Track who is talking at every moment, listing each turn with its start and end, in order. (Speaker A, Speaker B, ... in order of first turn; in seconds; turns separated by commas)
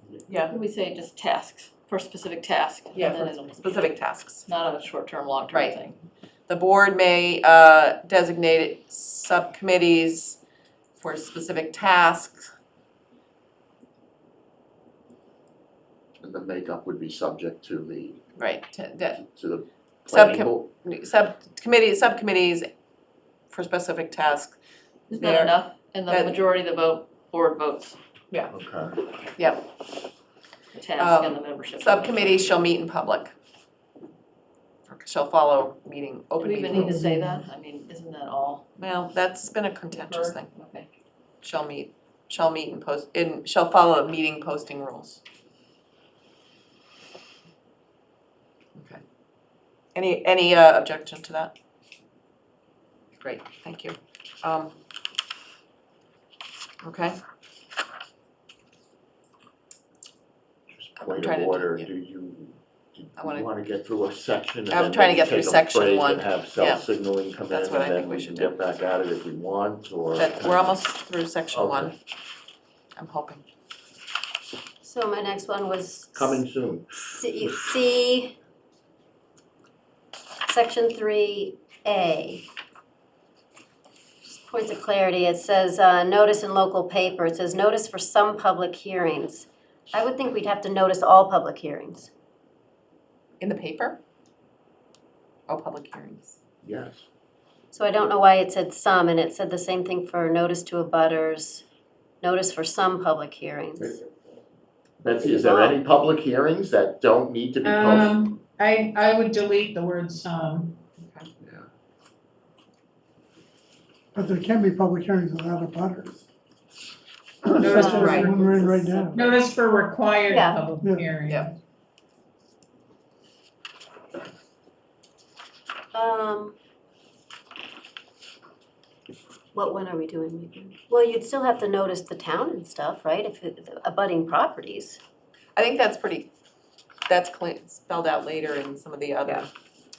Speaker A: 0.3-6.0, Speaker B: 2.9-4.5, Speaker B: 5.5-5.8, Speaker B: 6.5-10.4, Speaker B: 11.0-12.5, Speaker C: 16.2-18.2, Speaker B: 18.4-19.2, Speaker C: 19.2-20.7, Speaker B: 20.1-22.7, Speaker B: 23.5-24.6, Speaker B: 25.1-26.4, Speaker A: 25.1-28.0, Speaker C: 28.5-29.0, Speaker B: 29.4-29.6, Speaker A: 30.8-32.6, Speaker B: 31.0-33.3, Speaker B: 34.9-37.0, Speaker A: 36.4-38.6, Speaker D: 36.7-37.5, Speaker B: 38.8-40.5, Speaker A: 39.9-40.9, Speaker B: 41.4-45.2, Speaker B: 48.8-49.0, Speaker B: 50.0-51.5, Speaker B: 53.2-54.8, Speaker B: 56.8-57.2, Speaker C: 60.7-70.8, Speaker B: 61.0-61.9, Speaker B: 63.2-63.5, Speaker B: 64.7-66.9, Speaker B: 67.5-68.5, Speaker B: 70.2-71.9, Speaker C: 71.5-71.9, Speaker B: 73.0-73.4, Speaker E: 74.8-78.4, Speaker C: 76.1-77.5, Speaker E: 80.5-82.5, Speaker E: 84.3-92.1, Speaker B: 93.4-94.0, Speaker B: 95.5-96.4, Speaker C: 96.6-97.0, Speaker E: 97.7-101.7, Speaker E: 102.2-104.0, Speaker C: 105.0-108.2, Speaker E: 105.2-105.8, Speaker F: 107.6-110.7, Speaker B: 111.0-111.3, Speaker C: 111.4-111.7, Speaker D: 114.1-116.2, Speaker D: 117.4-119.3, Speaker F: 117.6-121.5, Speaker E: 117.6-118.6, Speaker B: 118.0-118.3, Speaker E: 120.3-120.7, Speaker E: 125.9-126.6, Speaker E: 129.5-135.0, Speaker B: 135.6-136.3, Speaker B: 137.1-139.5